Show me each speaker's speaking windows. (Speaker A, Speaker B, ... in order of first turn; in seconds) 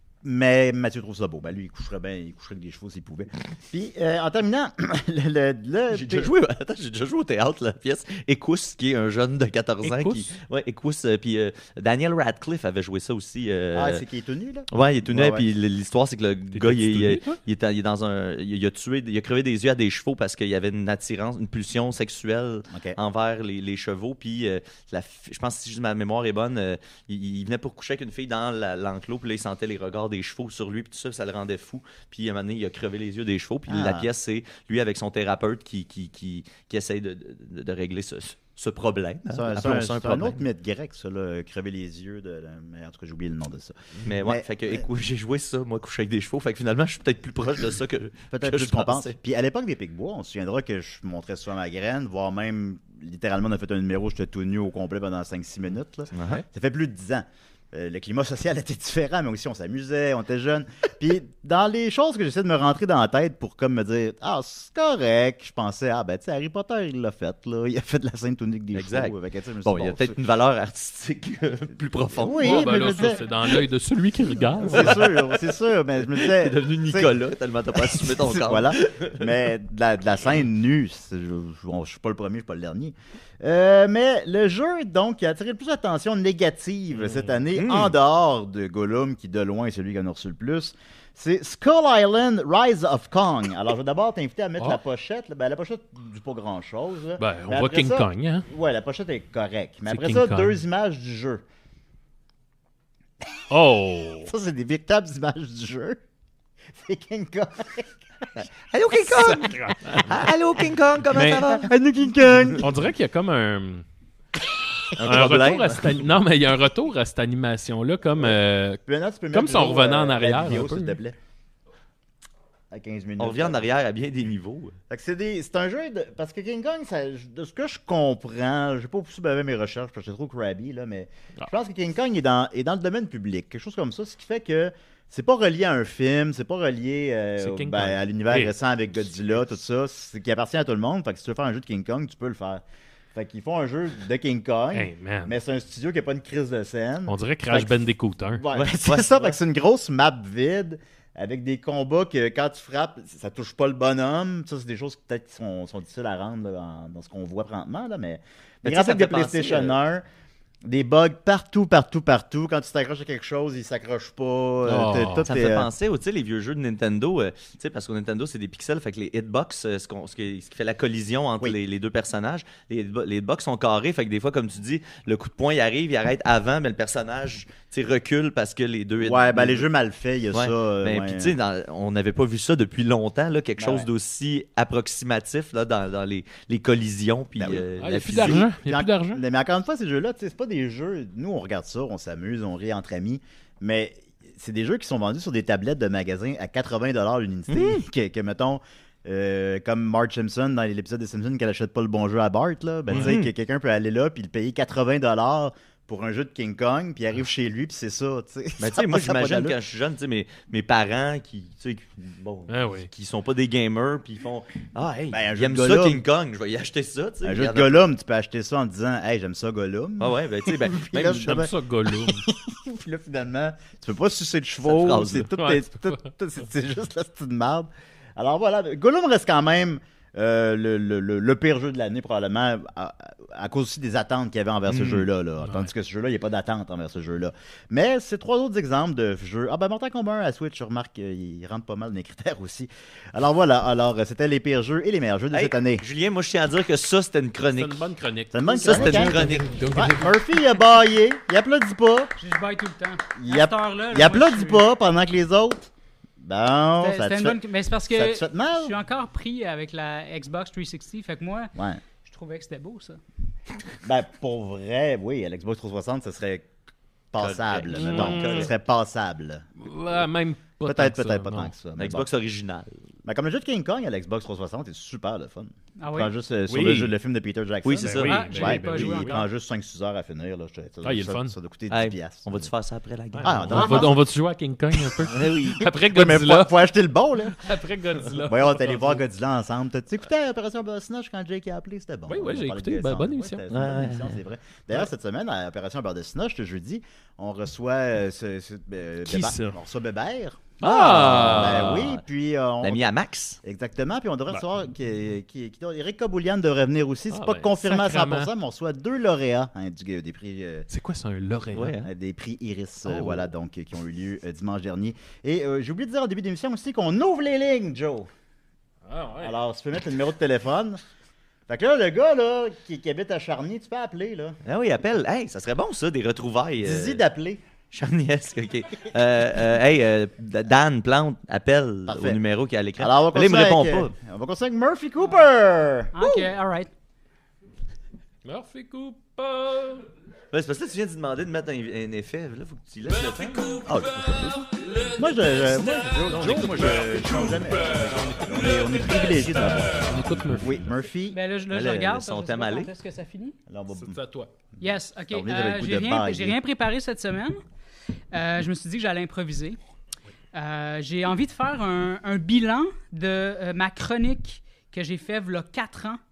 Speaker A: 0.2-6.3, 13.7-15.5, 22.7-23.0, 33.7-34.1, 39.3-44.9, 48.3-70.2, 72.2-73.2, 74.6-77.2, 77.7-101.4, 104.2-106.0, 106.8-108.4, 111.2-112.7, 118.8-121.2, 122.7-123.7, 124.9-142.6, 143.1-147.8, 148.3-160.0, 160.6-165.7, 179.0-181.3, 183.6-183.9, 187.4-209.6, 215.1-216.0, 217.2-245.8, 248.3-252.1, 253.2-258.8, 261.6-261.8, 263.8-266.5, 267.1-270.1, 270.6-272.1, 273.0-282.5, 283.2-284.0, 284.7-287.5, 288.2-302.8, 303.4-310.7, 311.8-318.1, 319.2-320.8, 321.5-324.4, 326.6-327.4, 331.9-332.2, 332.8-336.3, 343.6-344.4, 344.9-351.2, 353.5-354.0, 355.1-356.4
Speaker B: 5.9-14.0, 14.7-40.4, 44.0-49.1, 56.1-56.4, 68.7-73.6, 74.6-75.4, 76.1-79.4, 87.5-87.9, 108.4-111.7, 115.0-116.0, 123.2-124.8, 148.5-149.4, 158.6-159.8, 165.2-179.7, 180.3-188.5, 197.5-197.8, 202.9-203.3, 208.6-217.8, 220.0-221.5, 224.6-225.3, 234.7-235.0, 245.3-247.8, 248.6-249.6, 267.2-268.5, 271.8-272.9, 277.6-278.3, 281.7-283.9, 285.1-285.6, 293.5-294.2, 300.7-302.0, 302.6-303.4, 311.5-311.9, 324.4-327.0, 327.7-333.9, 340.3-344.4, 351.5-352.7
Speaker C: 9.8-10.3, 16.5-17.4, 72.4-75.1, 87.0-87.4, 97.2-98.5, 99.9-100.6, 103.5-104.3, 109.1-110.2, 111.1-111.4, 112.6-113.8, 115.0-118.8, 119.3-121.0, 137.4-138.5, 144.7-145.3, 147.1-148.4, 164.7-165.2, 187.8-189.2, 202.9-203.2, 212.5-212.9, 221.1-222.2, 225.3-225.9, 235.4-235.7, 247.5-250.1, 267.7-268.5, 269.6-271.5, 276.5-276.9, 277.8-279.2, 280.8-281.3, 283.1-286.6, 287.3-289.0, 292.1-293.4, 299.1-299.6, 300.6-302.0, 307.1-308.3, 310.7-311.7, 312.9-313.2, 318.9-319.3, 338.2-339.9, 343.1-350.7, 353.7-354.3
Speaker D: 252.2-254.6, 256.8-263.0, 275.8-276.1, 278.0-279.2, 335.9-336.7, 351.1-353.4, 354.6-357.4, 358.1-359.6, 360.3-366.0